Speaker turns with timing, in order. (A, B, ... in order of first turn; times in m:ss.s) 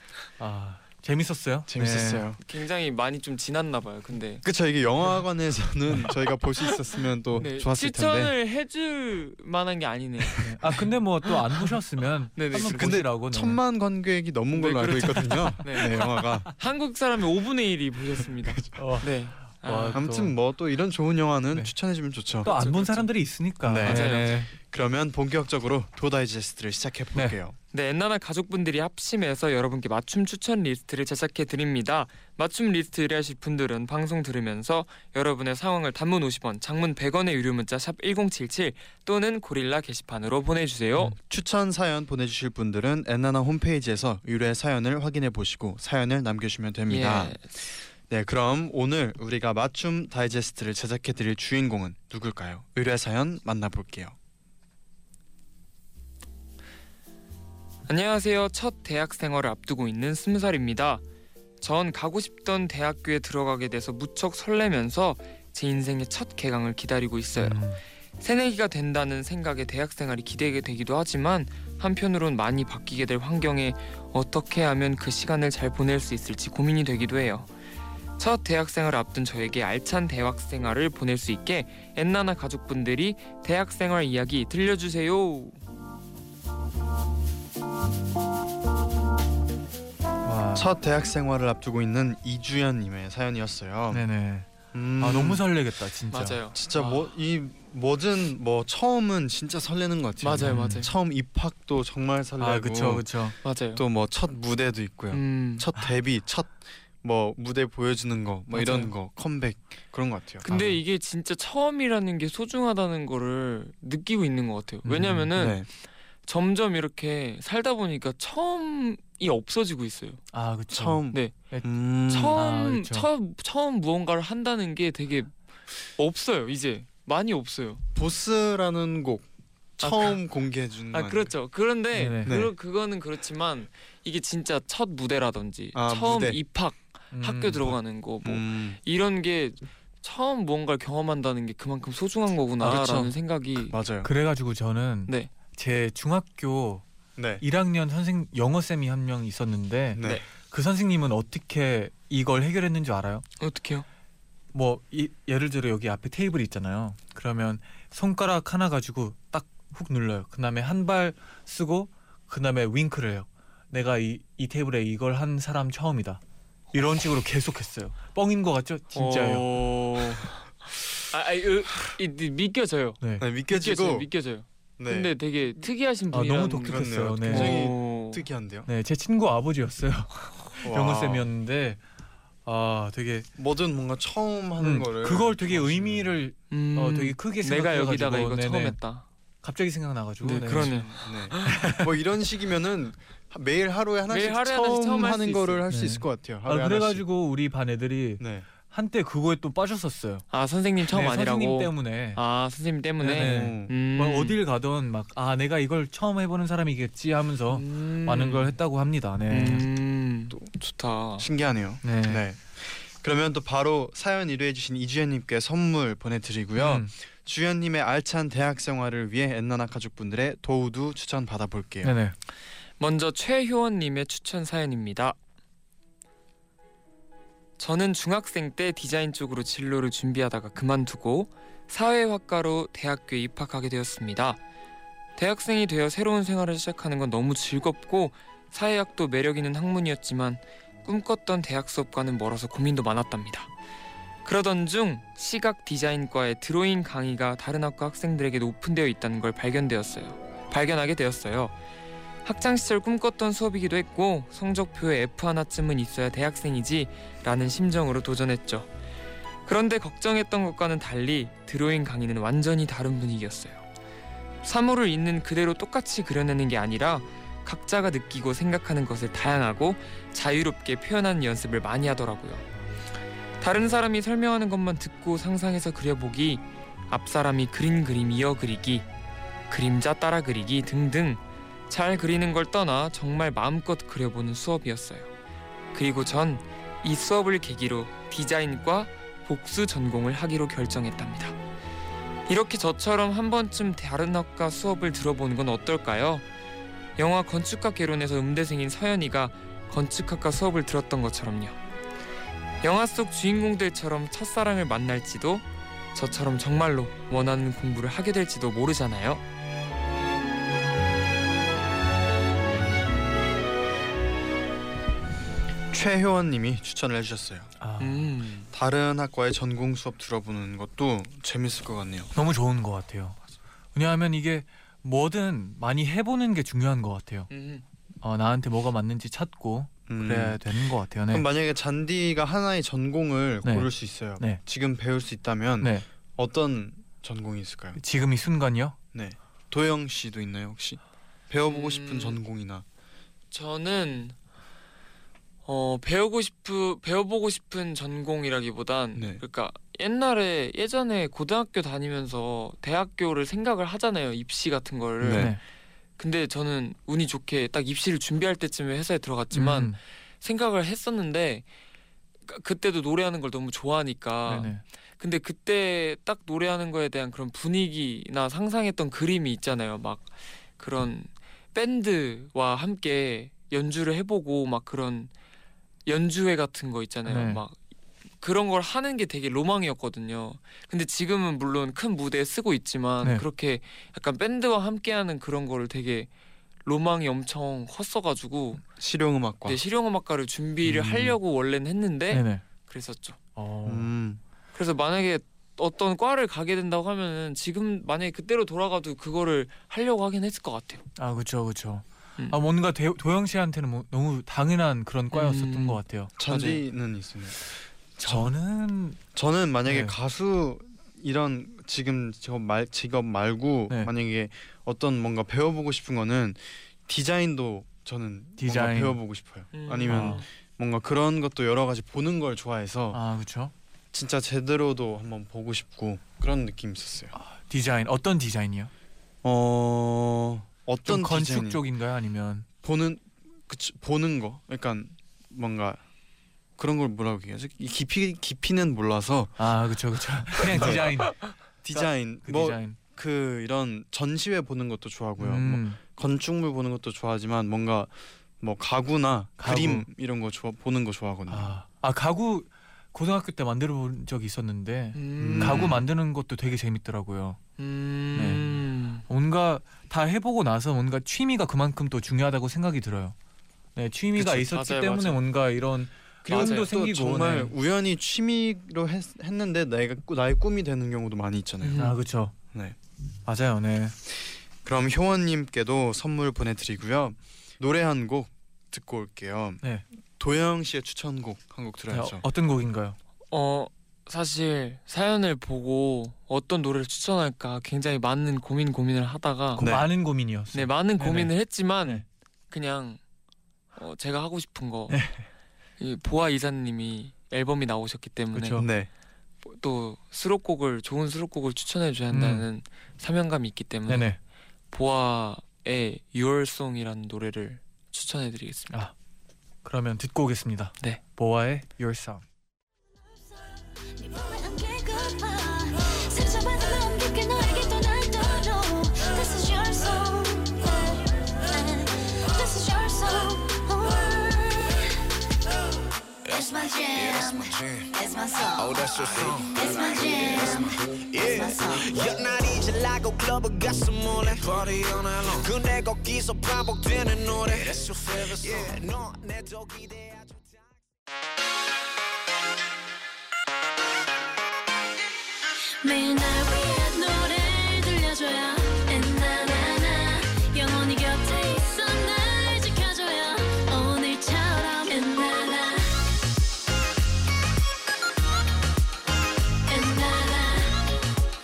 0:00.4-0:02.3 A
0:01.7-0:02.4 B
0:02.4-0:04.4 C
0:04.4-0:08.3 B
0:07.4-0:10.8 C
0:10.4-0:13.6 A
0:11.3-0:11.7 C
0:12.4-0:13.0 C
0:12.6-0:16.5 B
0:14.5-0:20.0 C
0:15.4-0:16.0 A
0:18.7-0:20.3 A
0:19.9-0:22.5 B
0:22.4-0:24.5 A
0:22.4-0:23.1 C
0:23.6-0:27.6 B
0:23.8-0:24.4 C
0:27.7-0:41.2 C
0:41.2-0:47.4 B
0:46.9-0:47.4 C
0:48.1-0:54.1 B
0:57.9-1:01.0 C
1:01.6-1:07.7 C
1:07.4-1:07.8 A
1:08.2-1:17.5 C
1:18.2-1:25.6 C
1:30.2-1:30.7 A
1:30.5-1:34.0 B
1:33.9-1:36.9 A
1:34.7-1:35.4 B
1:36.1-1:36.8 C
1:36.5-1:43.1 B
1:40.2-1:40.9 C
1:40.4-1:40.8 A
1:42.4-1:43.4 A
1:43.4-1:43.8 C
1:43.7-1:50.5 B
1:45.1-1:45.7 C
1:48.5-1:48.9 C
1:50.4-1:55.7 C
1:54.8-1:55.3 A
1:55.4-1:55.7 B
1:56.2-2:00.2 C
2:00.3-2:01.6 A
2:00.7-2:02.4 B
2:01.1-2:01.4 C
2:02.1-2:05.3 C
2:02.3-2:03.1 A
2:06.0-2:07.8 C
2:07.9-2:11.3 B
2:09.8-2:10.2 C
2:10.9-2:23.8 C
2:11.9-2:12.3 A
2:12.2-2:12.5 B
2:15.7-2:16.4 B
2:17.1-2:17.7 A
2:18.2-2:18.8 B
2:22.6-2:23.1 B
2:23.7-2:24.1 B
2:24.0-2:26.8 A
2:27.2-2:27.4 B
2:27.4-2:33.2 A
2:29.9-2:30.2 B
2:33.4-2:33.8 C
2:34.5-2:46.2 A
2:46.7-2:49.6 A
2:48.9-2:50.4 C
2:51.0-2:58.2 C
2:53.2-2:54.1 B
2:54.8-2:55.1 B
2:56.1-2:57.6 A
2:56.6-2:58.7 B
2:58.7-3:01.8 A
3:00.6-3:01.3 B
3:02.4-3:03.3 A
3:03.4-3:06.2 B
3:04.6-3:08.8 A
3:06.5-3:09.0 C
3:09.4-3:10.8 A
3:10.2-3:11.6 C
3:10.5-3:17.0 B
3:11.4-3:11.9 A
3:14.1-3:15.6 C
3:15.7-3:20.2 A
3:18.2-3:18.4 B
3:20.3-3:24.4 C
3:20.9-3:22.2 A
3:23.0-3:29.6 A
3:23.1-3:23.7 B
3:27.5-3:28.6 C
3:29.3-3:31.3 C
3:31.2-3:41.9 B
3:31.8-3:32.2 A
3:36.6-3:36.9 A
3:41.8-3:42.1 A
3:42.8-3:45.2 C
3:47.6-3:54.4 C
3:55.2-4:03.5 C
4:04.2-4:11.5 C
4:12.2-4:18.7 C
4:19.4-4:23.6 C
4:24.4-4:32.4 C
4:33.4-4:38.9 C
4:39.5-4:45.1 C
4:45.7-4:51.4 C
4:52.3-4:56.2 C
4:57.0-5:01.6 C
5:02.6-5:09.2 C
5:15.7-5:17.5 B
5:17.6-5:18.1 A
5:17.8-5:18.5 C
5:18.5-5:22.1 B
5:22.1-5:23.2 A
5:23.7-5:27.3 A
5:27.3-5:27.6 C
5:28.0-5:31.2 A
5:29.9-5:30.4 B
5:31.1-5:37.8 B
5:33.4-5:34.4 A
5:37.8-5:38.8 A
5:38.9-5:42.6 B
5:41.4-5:42.2 C
5:43.3-5:44.1 C
5:45.4-5:55.4 C
5:48.9-5:49.2 B
5:55.0-5:55.3 B
5:55.1-5:55.4 A
5:56.0-6:01.4 C
5:59.3-5:59.8 A
6:02.3-6:15.1 C
6:04.3-6:04.6 A
6:15.9-6:17.6 C
6:17.0-6:17.4 A
6:18.2-6:26.1 C
6:26.6-6:28.6 C
6:28.8-6:29.6 B
6:29.4-6:33.2 C
6:30.6-6:31.1 A
6:32.1-6:32.4 A
6:33.4-6:33.9 A
6:33.6-6:34.2 B
6:34.5-6:40.8 C
6:41.0-6:46.1 A
6:45.1-6:46.6 C
6:46.2-6:48.3 B
6:48.0-6:49.0 A
6:49.1-7:03.0 B
6:49.6-6:49.9 A
6:58.4-6:59.0 A
6:59.5-7:00.3 C
6:59.9-7:00.2 A
7:02.9-7:03.5 A
7:03.9-7:07.1 B
7:07.1-7:08.7 A
7:09.2-7:11.6 B
7:10.8-7:12.5 A
7:12.6-7:15.8 B
7:16.6-7:19.4 B
7:19.4-7:21.2 A
7:20.4-7:20.9 B
7:21.6-7:31.5 B
7:21.7-7:22.8 A
7:25.2-7:25.8 A
7:29.4-7:29.9 A
7:31.3-7:37.4 A
7:34.9-7:35.8 C
7:35.2-7:35.8 B
7:37.6-7:39.0 C
7:38.1-7:43.1 A
7:43.8-7:47.5 A
7:44.2-7:45.2 C
7:46.2-7:51.8 B
7:46.3-7:46.7 C
7:51.6-7:52.0 C
7:51.8-7:52.3 A
7:53.2-7:54.0 A
7:54.6-7:59.6 B
8:00.2-8:02.2 B
8:01.9-8:03.0 A
8:03.3-8:09.6 C
8:09.6-8:09.9 B
8:09.6-8:11.3 A
8:10.5-8:13.0 C
8:13.7-8:15.0 C
8:14.9-8:15.2 A
8:15.8-8:18.7 C
8:18.3-8:18.7 A
8:18.6-8:18.9 B
8:19.4-8:24.1 C
8:22.1-8:22.4 A
8:23.9-8:24.2 A
8:24.7-8:28.8 C
8:29.6-8:32.2 A
8:34.0-8:44.9 D
8:46.3-8:48.9 D
8:46.9-8:47.9 E
8:48.6-9:00.6 E
8:49.5-8:52.1 D
9:05.8-9:15.8 D
9:19.7-9:20.8 D